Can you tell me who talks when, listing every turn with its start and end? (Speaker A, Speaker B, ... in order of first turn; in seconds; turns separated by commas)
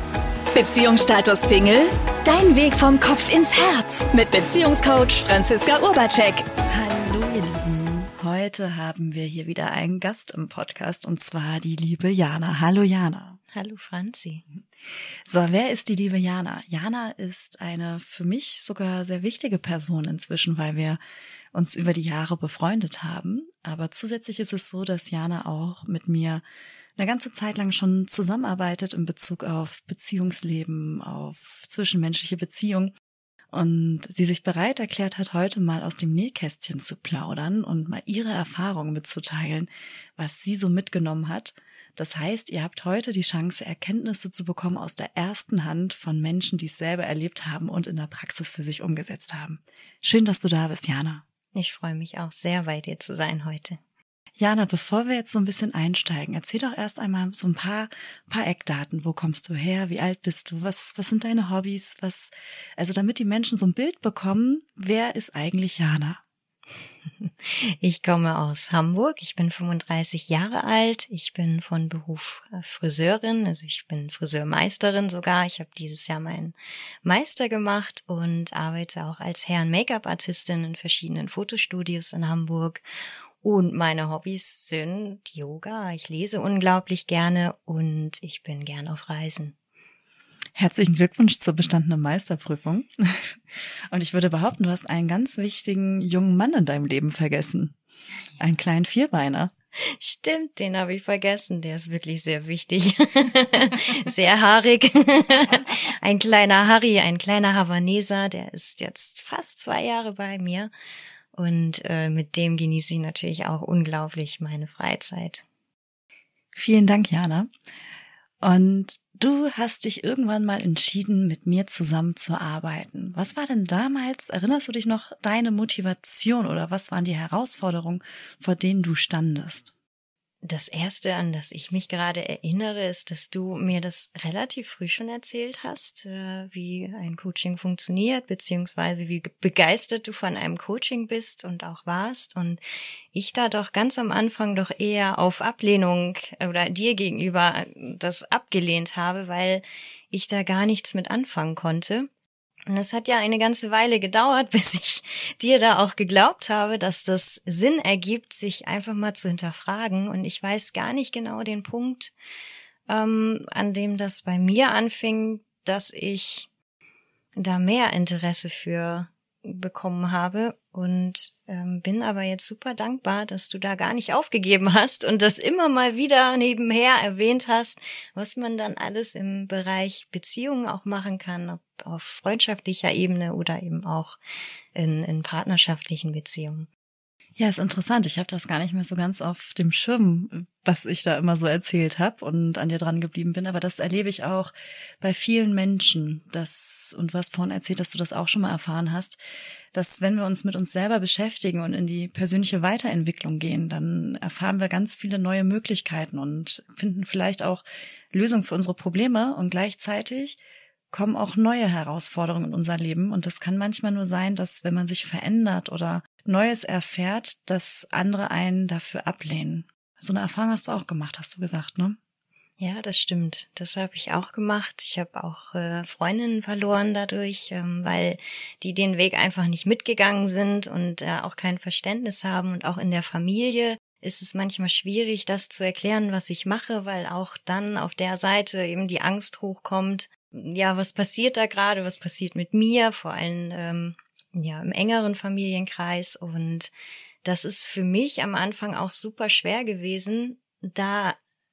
Speaker A: 0.5-6.5, Speaker B: 6.7-13.4, Speaker C: 13.5-14.4, Speaker B: 15.3-21.0, Speaker B: 21.5-26.4, Speaker B: 27.0-33.0, Speaker B: 33.5-51.2, Speaker C: 51.5-53.8, Speaker B: 54.4-66.2, Speaker C: 67.2-82.8, Speaker C: 83.4-89.5, Speaker B: 90.6-93.4, Speaker B: 93.9-97.8, Speaker B: 98.4-99.5, Speaker C: 100.0-110.7, Speaker C: 111.3-115.4, Speaker B: 116.5-117.5, Speaker B: 118.4-129.7, Speaker C: 130.4-142.6, Speaker C: 143.1-152.1, Speaker C: 152.7-162.1, Speaker C: 162.9-166.5, Speaker C: 167.4-184.2, Speaker C: 184.8-186.7, Speaker B: 187.4-199.2, Speaker B: 199.7-210.4, Speaker B: 210.9-222.0, Speaker C: 222.6-246.7, Speaker C: 247.2-251.2